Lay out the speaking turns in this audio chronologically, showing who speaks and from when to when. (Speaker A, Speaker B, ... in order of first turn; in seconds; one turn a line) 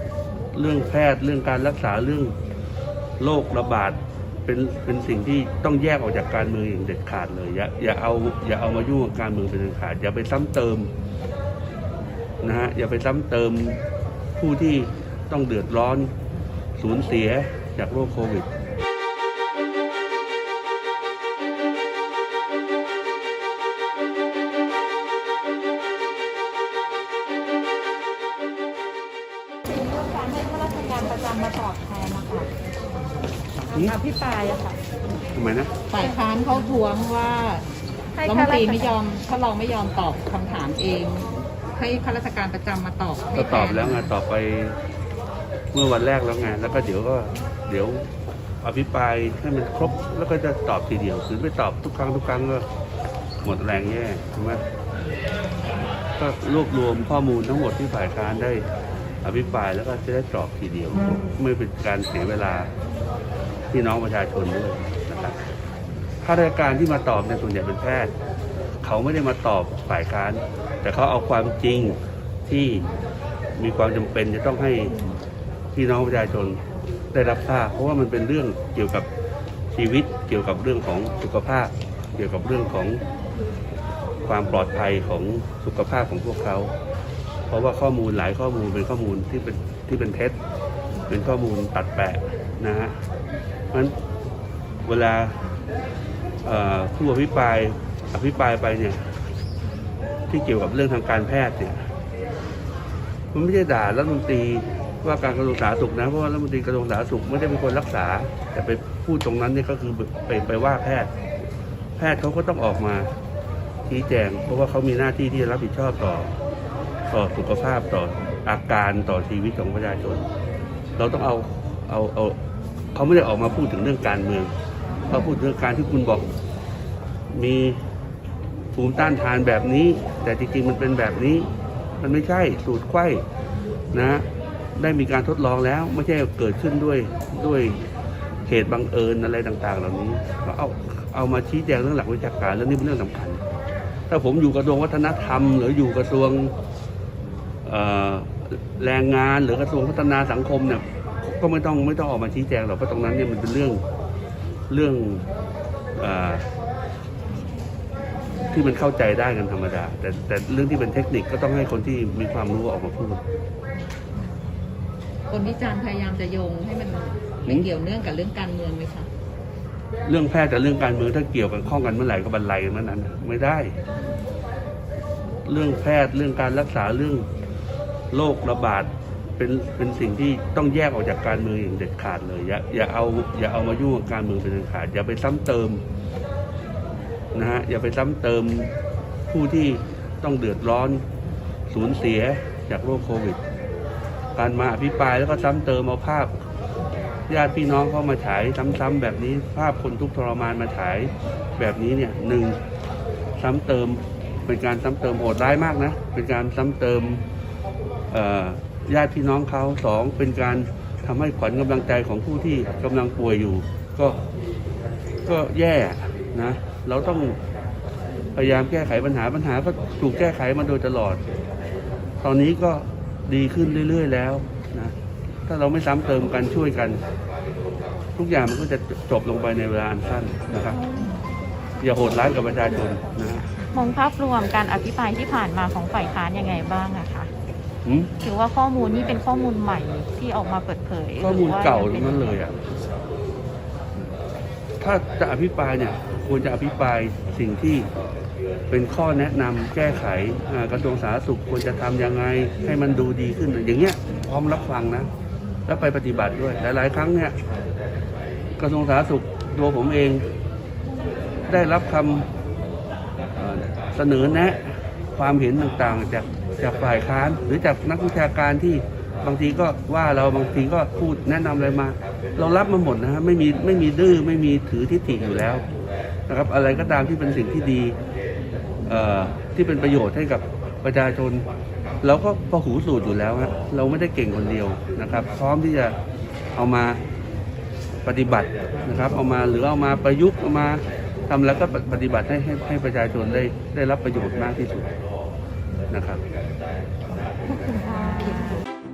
Speaker A: 0.5-2.3
Speaker A: 3.2-10.9
Speaker A: 12.4-13.8
Speaker A: 14.4-16.1
Speaker A: 16.8-18.5
Speaker B: 29.7-32.5
Speaker A: 33.7-34.0
Speaker B: 33.7-34.8
Speaker A: 35.3-35.7
Speaker C: 35.9-37.6
Speaker B: 38.1-38.9
Speaker C: 38.2-44.1
Speaker A: 43.4-44.8
Speaker A: 45.7-48.1
Speaker A: 48.6-52.6
Speaker A: 53.4-54.6
Speaker A: 56.2-58.6
Speaker A: 59.2-62.7
Speaker A: 63.7-65.4
Speaker A: 66.2-68.1
Speaker A: 68.8-72.9
Speaker A: 73.6-75.0
Speaker A: 75.7-76.6
Speaker A: 77.1-79.1
Speaker A: 79.7-83.0
Speaker A: 84.2-86.7
Speaker A: 87.5-90.3
Speaker A: 91.1-93.0
Speaker A: 94.8-95.4
Speaker A: 96.4-99.0
Speaker A: 100.3-101.9
Speaker A: 103.3-111.1
Speaker A: 112.0-113.1
Speaker A: 113.9-116.3
Speaker A: 117.1-120.2
Speaker A: 121.0-122.4
Speaker A: 122.9-124.5
Speaker A: 125.1-126.3
Speaker A: 127.3-127.8
Speaker A: 128.7-131.5
Speaker A: 132.0-133.2
Speaker A: 133.9-134.2
Speaker A: 134.8-137.8
Speaker A: 138.4-143.4
Speaker A: 144.1-146.5
Speaker A: 147.6-153.8
Speaker A: 154.7-155.2
Speaker A: 155.9-156.5
Speaker A: 158.5-163.2
Speaker C: 165.3-169.1
Speaker A: 170.1-173.7
Speaker A: 175.4-177.3
Speaker A: 178.1-185.8
Speaker A: 187.3-188.7
Speaker A: 189.3-191.0
Speaker A: 191.7-193.4
Speaker A: 194.3-196.4
Speaker A: 197.3-202.6
Speaker A: 203.4-207.2
Speaker A: 208.1-214.2
Speaker A: 215.2-217.4
Speaker A: 218.3-221.2
Speaker A: 222.2-224.9
Speaker A: 225.5-227.0
Speaker A: 228.2-230.8
Speaker B: 230.8-231.1
Speaker A: 231.8-233.4
Speaker B: 233.5-237.3
Speaker A: 237.8-238.1
Speaker B: 238.2-242.4
Speaker A: 241.2-242.6
Speaker A: 244.8-247.9
Speaker A: 248.7-255.1
Speaker A: 255.7-257.4
Speaker A: 258.6-260.2
Speaker A: 261.5-262.3
Speaker A: 263.4-264.6
Speaker A: 265.2-275.6
Speaker A: 276.3-278.0
Speaker A: 278.9-281.5
Speaker A: 282.0-285.9
Speaker A: 286.5-287.0
Speaker A: 288.0-294.9
Speaker A: 295.9-296.2
Speaker B: 297.7-298.5